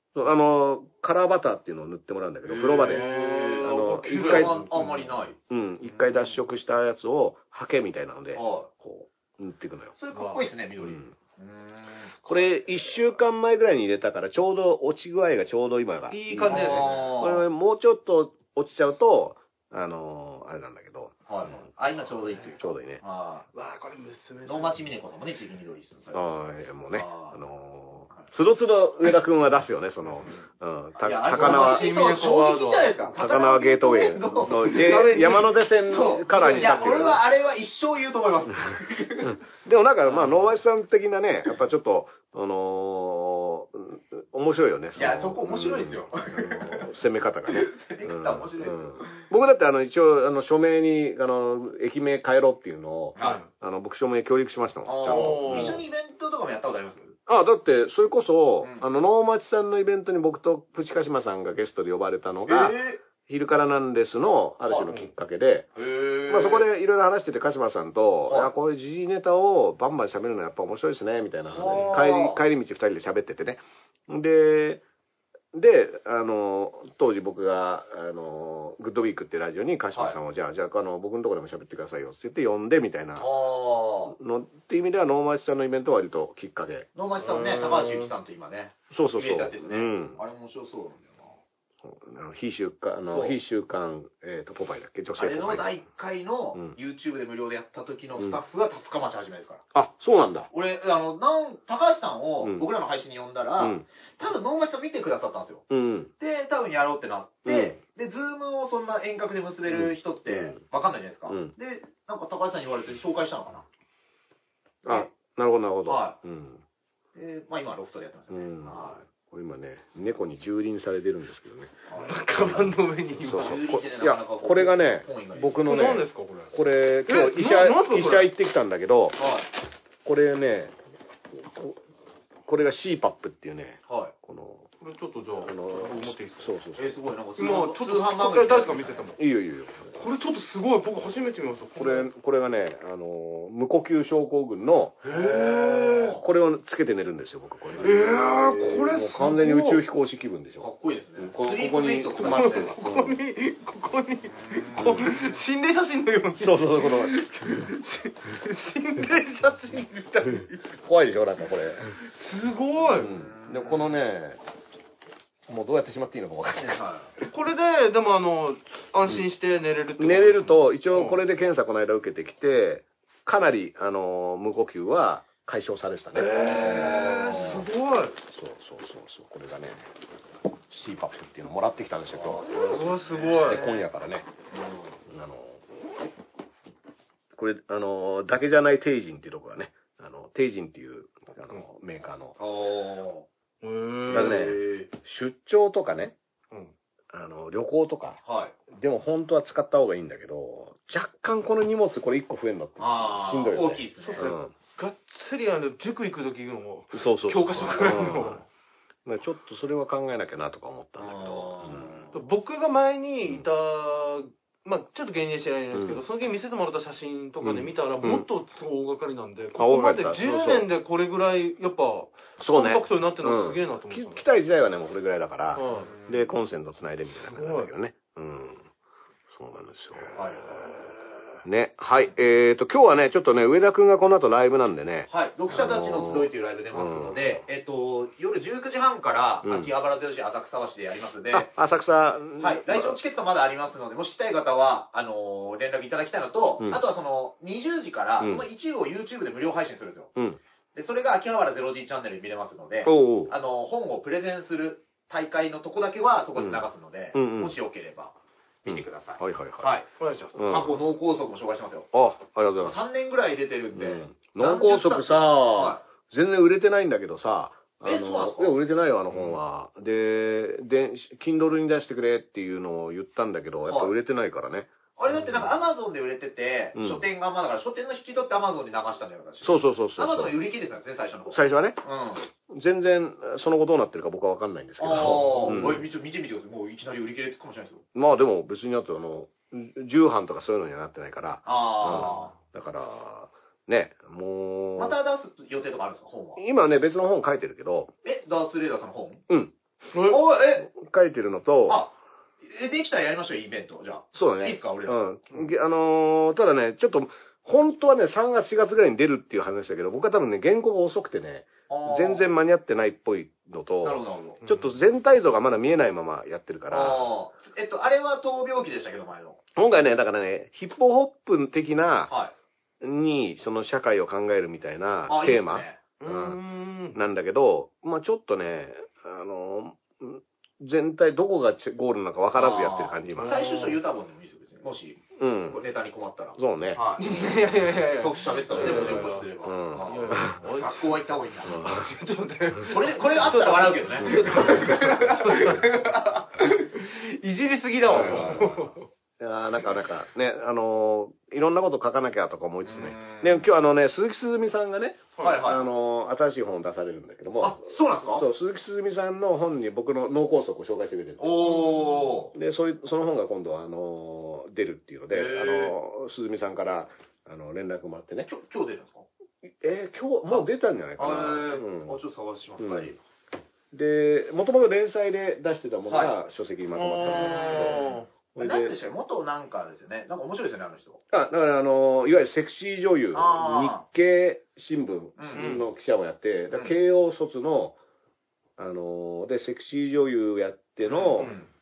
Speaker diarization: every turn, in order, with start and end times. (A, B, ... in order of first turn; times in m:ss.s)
0:00.2-0:03.1 A
0:02.5-0:06.4 B
0:02.6-0:05.2 C
0:03.6-0:04.7 A
0:05.5-0:09.9 A
0:08.4-0:08.7 B
0:10.0-0:12.1 B
0:10.1-0:10.5 C
0:10.8-0:11.1 A
0:12.3-0:21.7 A
0:16.1-0:17.1 C
0:16.5-0:17.4 B
0:21.3-0:23.5 B
0:22.6-0:23.0 A
0:23.5-0:24.8 C
0:24.5-0:26.4 B
0:26.1-0:31.9 A
0:26.9-0:27.4 B
0:31.0-0:35.3 B
0:31.4-0:33.0 C
0:33.1-0:37.2 A
0:34.5-0:37.0 C
0:35.8-0:39.4 B
0:39.2-0:55.8 A
0:45.0-0:46.9 B
0:47.5-0:49.2 B
0:53.2-0:53.4 B
0:53.2-0:53.4 C
0:54.8-0:57.2 B
0:55.1-0:55.8 C
0:57.3-1:05.7 A
1:02.5-1:03.0 B
1:04.7-1:05.0 B
1:05.8-1:06.7 B
1:06.3-1:14.8 A
1:11.5-1:12.4 B
1:15.5-1:23.3 A
1:23.2-1:24.1 B
1:24.1-1:26.9 A
1:27.0-1:31.4 B
1:27.2-1:28.1 C
1:28.9-1:30.2 A
1:31.8-1:35.7 A
1:33.1-1:33.4 B
1:35.2-1:39.6 B
1:39.7-1:40.5 A
1:40.5-1:45.7 B
1:43.6-1:43.8 A
1:45.7-1:46.1 A
1:46.2-1:53.7 B
1:47.5-1:47.8 A
1:49.7-1:50.6 A
1:51.3-1:51.5 A
1:54.8-1:56.6 A
1:54.9-1:55.1 B
1:55.9-1:56.2 B
1:57.2-1:59.0 B
1:58.3-2:01.8 A
2:01.9-2:02.2 B
2:02.0-2:03.6 C
2:02.3-2:09.2 A
2:03.2-2:05.8 B
2:05.6-2:06.5 C
2:07.1-2:08.3 C
2:09.2-2:09.5 B
2:10.0-2:10.8 A
2:11.3-2:11.8 A
2:12.5-2:14.7 A
2:13.9-2:14.1 B
2:14.8-2:16.6 C
2:15.4-2:16.9 A
2:16.8-2:19.1 B
2:17.4-2:19.2 C
2:19.2-2:20.0 A
2:19.9-2:22.1 C
2:21.8-2:25.1 A
2:25.0-2:26.1 C
2:25.1-2:26.2 B
2:26.1-2:30.7 A
2:27.8-2:29.8 C
2:30.6-2:32.7 B
2:31.2-2:33.2 A
2:32.2-2:40.6 C
2:34.3-2:35.3 B
2:34.8-2:35.1 A
2:36.4-2:37.2 A
2:40.6-2:42.0 A
2:42.0-2:43.1 C
2:42.9-2:44.4 A
2:43.0-2:44.0 B
2:45.5-2:46.8 A
2:46.6-2:47.1 B
2:47.2-2:51.2 C
2:50.0-2:57.6 A
2:56.1-2:58.2 C
2:56.4-2:57.6 B
2:58.2-2:59.9 A
3:00.7-3:04.3 A
3:02.1-3:03.5 B
3:02.5-3:03.8 C
3:04.5-3:05.0 B
3:05.1-3:05.6 A
3:07.4-3:12.4 A
3:12.4-3:13.3 B
3:13.6-3:14.5 C
3:14.1-3:14.9 B
3:14.1-3:16.2 A
3:17.1-3:18.2 A
3:18.2-3:18.6 B
3:18.7-3:24.5 A
3:22.8-3:24.3 B
3:24.0-3:28.4 C
3:26.9-3:28.4 A
3:27.6-3:28.0 B
3:29.0-3:32.1 A
3:31.0-3:32.1 B
3:32.1-3:44.2 C
3:35.7-3:36.0 A
3:37.4-3:38.3 A
3:39.6-3:40.7 A
3:42.4-3:48.7 A
3:45.6-3:45.9 C
3:45.7-3:46.2 B
3:47.3-3:47.7 C
3:49.3-3:50.7 A
3:50.1-3:50.6 B
3:51.4-3:57.4 A
3:55.1-4:01.5 B
3:59.4-3:59.7 A
4:01.3-4:03.0 A
4:02.4-4:10.1 B
4:10.8-4:19.9 B
4:12.8-4:13.4 A
4:16.4-4:17.6 A
4:18.7-4:19.8 A
4:20.0-4:20.7 C
4:20.4-4:20.8 A
4:20.4-4:21.9 B
4:21.9-4:22.8 A
4:22.6-4:25.8 B
4:23.8-4:34.7 A
4:27.8-4:28.6 B
4:29.1-4:29.4 B
4:33.7-4:33.9 B
4:35.0-4:42.3 B
4:36.8-4:37.0 A
4:39.4-4:40.4 A
4:41.3-4:41.8 A
4:42.4-4:45.9 A
4:44.8-4:47.8 B
4:45.0-4:45.7 C
4:48.0-4:55.0 A
4:51.4-4:52.3 B
4:54.8-4:56.4 B
4:56.4-4:57.9 A
4:58.0-4:59.2 B
4:59.3-4:59.5 A
4:59.9-5:00.7 B
5:00.6-5:01.8 A
5:01.7-5:05.0 B
5:04.1-5:17.0 A
5:11.7-5:12.3 B
5:13.8-5:14.4 B
5:14.4-5:14.7 C
5:16.7-5:19.4 B
5:19.6-5:22.1 A
5:22.8-5:26.4 A
5:25.1-5:25.8 B
5:26.0-5:27.0 C
5:26.9-5:33.4 A
5:32.3-5:41.6 B
5:33.2-5:33.8 C
5:35.2-5:35.6 A
5:36.4-5:36.8 A
5:37.0-5:39.3 C
5:38.5-5:40.4 A
5:39.8-5:48.9 C
5:41.4-5:41.9 A
5:42.7-5:46.3 B
5:44.0-5:44.9 A
5:47.9-5:48.6 B
5:47.9-5:48.6 A
5:49.2-5:57.6 A
5:52.6-5:53.4 B
5:55.2-5:55.6 B
5:57.4-5:58.3 B
5:58.1-6:01.7 A
6:01.2-6:02.3 B
6:02.3-6:08.3 A
6:05.1-6:05.8 B
6:08.3-6:09.1 B
6:09.5-6:12.0 A
6:10.3-6:13.0 B
6:12.6-6:12.9 A
6:13.7-6:18.8 A
6:15.9-6:16.2 B
6:16.7-6:18.1 C
6:17.0-6:21.0 B
6:21.1-6:27.8 A
6:23.1-6:23.8 B
6:25.2-6:25.6 B
6:25.3-6:25.6 C
6:28.6-6:31.3 A
6:30.9-6:31.5 B